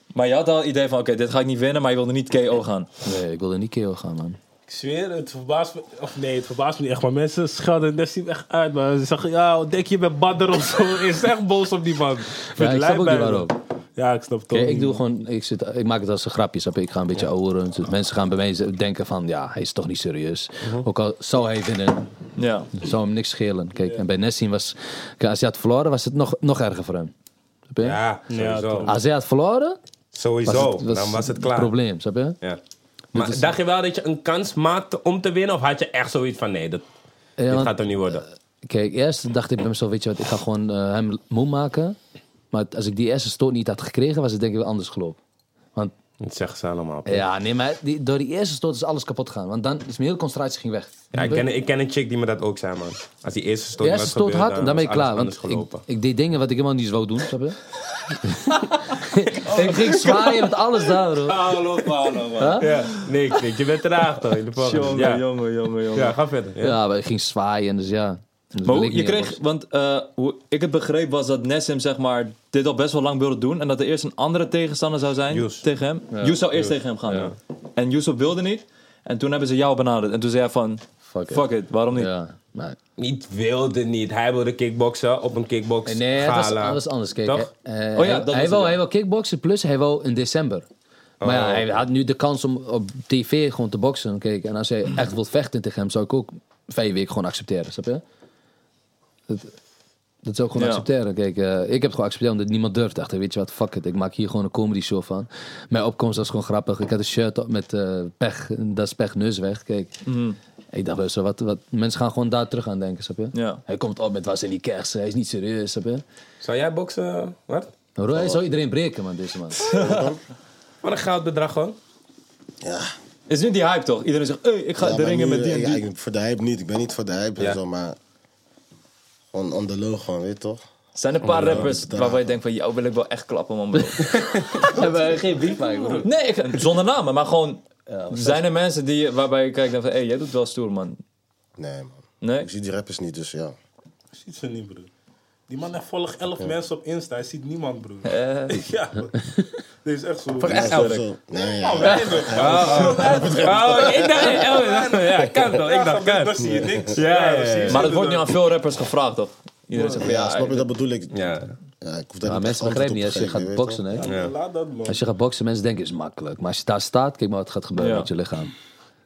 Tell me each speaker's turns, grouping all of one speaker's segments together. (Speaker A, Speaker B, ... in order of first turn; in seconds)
Speaker A: 0.1-2.9, 22.4-22.7, 64.6-66.2, 68.6-82.1, 87.9-88.8, 100.5-100.9, 110.0-110.4, 113.3-113.6, 119.7-120.0, 123.3-125.8, 130.9-134.7, 136.0-141.0, 142.2-142.5, 148.0-148.6, 150.5-151.0, 157.7-160.7, 167.8-168.1
Speaker B: 3.0-4.4, 12.6-13.6, 14.5-22.1, 22.7-27.1, 27.7-28.0, 28.9-29.8, 30.4-32.4, 33.1-33.5, 37.4-37.8, 38.6-42.0, 42.5-45.2, 47.0-51.4, 53.8-57.6, 58.2-61.5, 62.4-62.6, 66.6-69.4, 76.1-76.4, 81.1-82.8, 85.9-90.7, 91.2-98.0, 100.2-109.9, 110.7-116.0, 118.0-119.7, 134.5-136.1, 137.9-138.4, 162.2-164.1, 164.9-168.5
Speaker C: 4.7-15.0, 28.3-29.0, 61.2-62.7, 144.2-144.9, 145.5-149.1, 149.8-150.7, 151.4-158.3, 159.8-160.1, 163.9-165.0
Speaker D: 11.2-12.3, 20.6-20.9, 27.8-28.9, 30.1-31.7, 33.1-36.8, 37.5-38.2, 46.2-47.2, 51.1-55.8, 59.5-60.2, 62.6-65.2, 65.9-66.8, 75.3-75.6, 76.5-77.3, 83.0-87.5, 91.2-91.8, 116.4-117.7, 120.8-121.8, 150.4-151.0, 152.3-157.9, 161.1-161.5, 164.0-164.3
Speaker E: 119.7-120.2, 122.6-122.9, 124.8-128.0, 129.3-130.6, 131.2-132.4, 141.6-143.5, 150.4-154.0, 156.4-156.9, 159.9-161.2, 161.8-163.8